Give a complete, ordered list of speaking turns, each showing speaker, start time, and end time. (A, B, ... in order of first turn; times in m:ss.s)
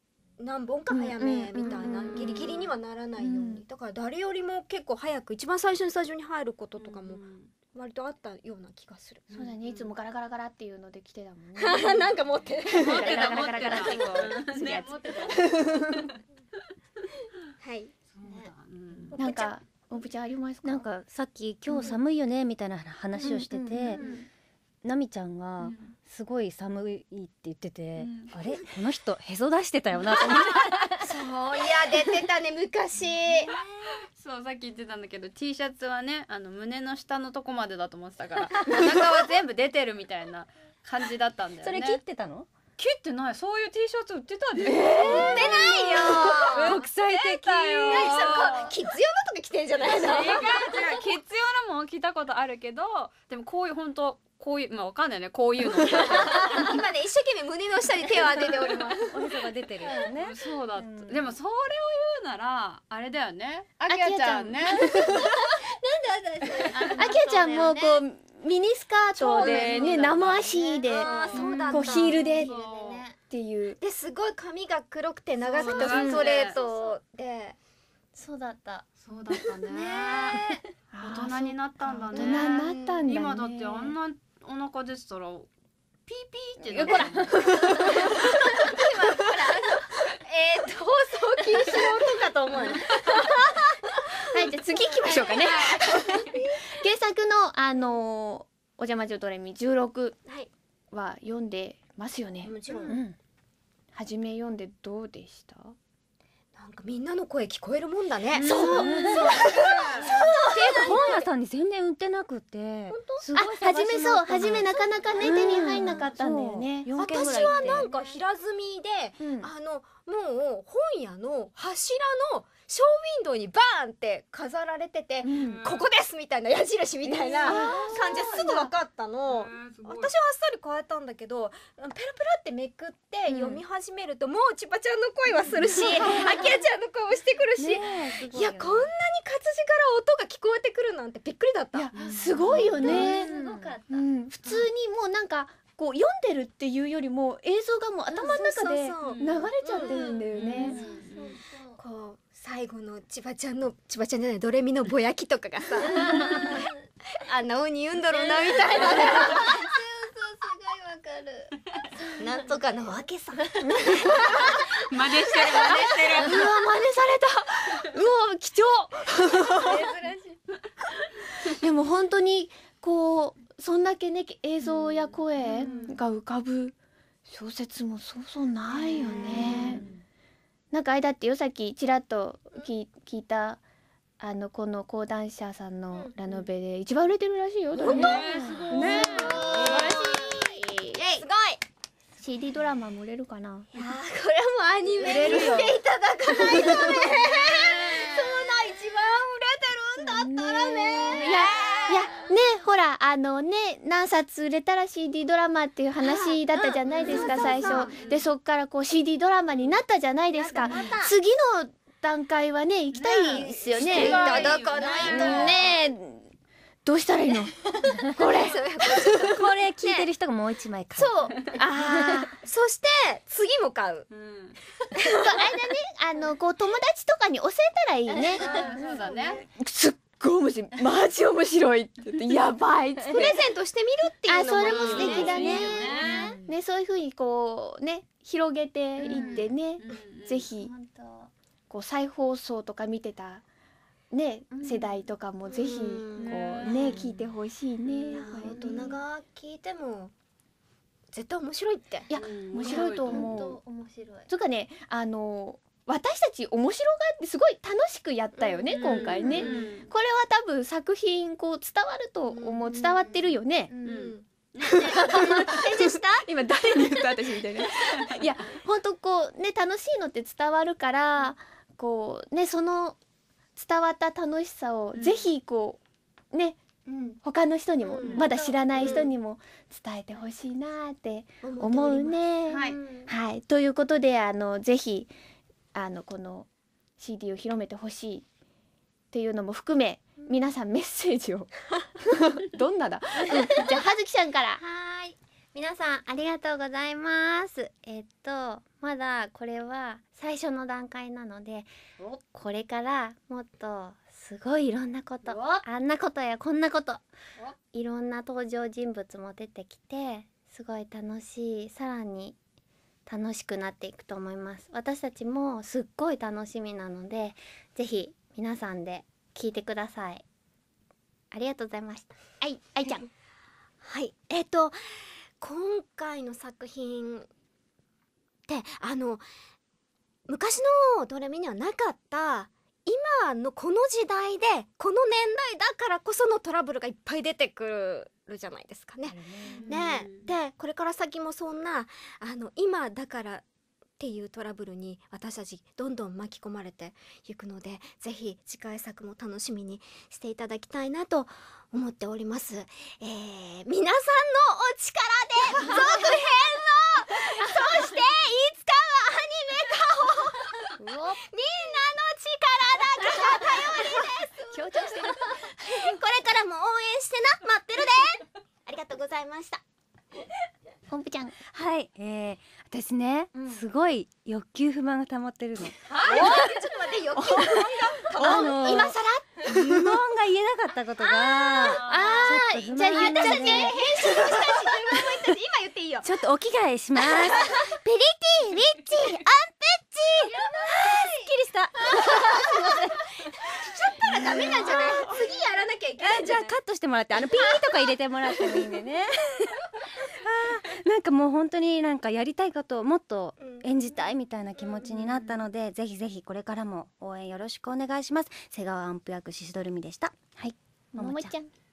0:00.4-0:09.5 A
0:00.9-0:02.6 B
0:02.2-0:02.7 C
0:03.2-0:03.6 B
0:06.8-0:07.5 C
0:09.3-0:12.1 B
0:09.4-0:09.9 C
0:11.6-0:14.5 A
0:12.6-0:15.8 B
0:12.8-0:16.2 C
0:17.6-0:17.9 A
0:18.1-0:19.1 C
0:18.2-0:18.5 D
0:19.1-0:19.6 A
0:19.1-0:20.9 B
0:20.6-0:24.0 E
0:21.7-0:22.0 B
0:23.2-0:23.9 B
0:24.0-0:24.2 C
0:24.8-0:30.9 E
0:25.6-0:26.0 C
0:28.0-0:28.7 C
0:31.0-0:33.5 A
0:34.1-0:42.0 C
0:41.6-0:42.5 E
0:42.8-0:48.7 C
0:44.6-0:45.4 B
0:45.0-0:50.7 A
0:45.1-0:45.7 E
0:46.6-0:48.2 E
0:49.8-0:56.6 C
0:56.0-0:59.4 A
0:59.1-1:01.4 E
0:59.8-1:00.1 D
1:00.1-1:05.2 C
1:03.9-1:05.2 B
1:04.7-1:08.0 D
1:06.7-1:07.1 C
1:06.9-1:12.6 B
1:09.2-1:10.2 A
1:09.4-1:10.5 C
1:10.2-1:13.2 D
1:10.9-1:12.4 A
1:12.4-1:13.1 C
1:13.2-1:13.8 B
1:13.8-1:17.6 A
1:15.4-1:16.6 C
1:15.6-1:17.0 D
1:15.8-1:16.4 B
1:18.1-1:18.9 D
1:19.0-1:25.5 C
1:19.7-1:20.4 D
1:20.9-1:24.0 B
1:22.1-1:23.0 A
1:26.1-1:27.9 C
1:26.7-1:28.7 B
1:27.9-1:36.6 A
1:34.3-1:36.0 B
1:35.1-1:36.2 C
1:36.7-1:40.2 B
1:40.2-1:40.5 A
1:40.9-1:43.0 B
1:42.4-1:43.0 A
1:42.9-1:43.2 E
1:43.9-1:45.8 B
1:46.6-1:51.3 A
1:48.4-1:49.4 E
1:48.5-1:49.1 B
1:48.8-1:50.2 C
1:50.1-1:57.9 E
1:52.9-1:53.3 A
1:53.4-1:57.1 B
1:54.4-1:56.0 A
1:54.8-1:55.8 D
1:57.0-2:21.9 A
1:57.8-1:58.2 D
1:59.2-1:59.5 B
2:05.2-2:05.7 B
2:05.4-2:05.8 C
2:07.2-2:08.7 B
2:09.3-2:10.1 C
2:13.3-2:13.6 B
2:17.6-2:18.9 E
2:21.8-2:23.4 B
2:21.9-2:22.7 C
2:22.5-2:23.1 A
2:22.8-2:24.1 D
2:23.0-2:23.8 E
2:23.9-2:30.8 B
2:28.1-2:30.3 A
2:29.0-2:29.5 C
2:29.9-2:31.8 D
2:30.3-2:31.3 C
2:31.8-2:36.6 A
2:35.8-2:36.7 D
2:37.2-2:39.6 A
2:38.1-2:43.8 D
2:42.2-2:44.5 A
2:43.6-2:44.5 B
2:44.9-2:46.5 C
2:45.3-2:45.9 D
2:46.2-2:49.8 B
2:49.6-2:50.3 D
2:51.6-2:56.8 B
2:54.8-2:55.9 C
2:57.3-2:59.8 B
2:58.9-2:59.4 A
2:59.0-2:59.9 C
3:00.7-3:03.6 B
3:04.2-3:11.0 B
3:05.9-3:06.5 A
3:07.8-3:11.6 A
3:07.8-3:10.0 C
3:12.2-3:13.8 B
3:13.7-3:22.2 A
3:15.0-3:15.8 C
3:15.0-3:15.5 B
3:16.5-3:17.0 B
3:20.0-3:36.3 B
3:26.0-3:28.0 A
3:27.2-3:28.3 C
3:30.3-3:31.1 A
3:32.9-3:35.8 C
3:33.3-3:35.5 A
3:36.8-3:39.3 B
3:37.6-3:40.1 A
3:39.3-3:42.2 E
3:41.0-3:41.4 A
3:41.4-3:42.4 B
3:42.4-3:44.1 A
3:44.1-3:44.6 C
3:45.0-3:45.4 A
3:45.2-3:48.6 B
3:48.3-3:49.3 D
3:48.4-3:49.4 C
3:49.4-3:53.5 B
3:53.1-3:55.8 A
3:54.2-4:00.7 B
3:54.6-3:56.3 C
3:55.0-3:56.5 E
3:55.4-3:56.4 D
3:59.0-4:00.1 A
3:59.1-3:59.4 D
3:59.8-4:00.5 C
4:00.5-4:01.3 D
4:01.7-4:03.4 B
4:04.1-4:09.0 B
4:04.5-4:05.0 D
4:05.4-4:07.0 A
4:06.2-4:07.0 C
4:07.9-4:08.9 D
4:08.1-4:10.1 A
4:11.1-4:12.1 A
4:12.1-4:13.6 B
4:12.2-4:13.3 C
4:12.6-4:14.3 D
4:14.3-4:23.8 B
4:18.3-4:19.8 A
4:18.7-4:19.9 C
4:22.2-4:24.4 A
4:23.7-4:24.0 D
4:23.8-4:25.7 C
4:24.6-4:33.0 B
4:25.0-4:26.3 A
4:33.6-4:35.8 B
4:34.9-4:35.3 C
4:36.3-4:36.6 B
4:36.9-4:37.2 D
4:37.2-4:45.1 B
4:37.8-4:39.1 A
4:38.2-4:38.7 D
4:41.4-4:42.2 A
4:42.5-4:42.8 C
4:42.6-4:43.1 D
4:45.8-4:46.5 B
4:47.0-4:48.3 B
4:49.1-4:54.6 B
4:50.2-4:50.5 D
4:54.6-5:01.7 D
5:02.2-5:07.0 D
5:05.3-5:05.6 C
5:07.7-5:12.4 D
5:13.1-5:20.2 D
5:21.3-5:23.0 D
5:23.8-5:27.3 A
5:28.5-5:29.2 A
5:30.3-5:43.5 A
5:39.0-5:39.7 E
5:39.4-5:40.3 C
5:44.0-6:09.6 A
6:00.8-6:01.2 B
6:03.0-6:03.6 B
6:04.5-6:05.9 B
6:10.9-6:11.4 B
6:11.5-6:15.8 E
6:13.4-6:13.6 D
6:15.9-6:16.5 C
6:16.0-6:19.6 A
6:18.2-6:18.9 B
6:18.2-6:24.2 E
6:21.0-6:21.6 A
6:21.6-6:22.4 C
6:21.7-6:24.0 B
6:23.1-6:26.2 A
6:26.0-6:32.7 E
6:27.3-6:27.6 A
6:30.3-6:32.7 A
6:33.5-6:36.6 A
6:34.0-6:35.1 E
6:36.0-6:39.6 E
6:40.2-6:51.3 E
6:43.4-6:44.9 A
6:44.8-6:45.4 C
6:51.0-6:51.5 B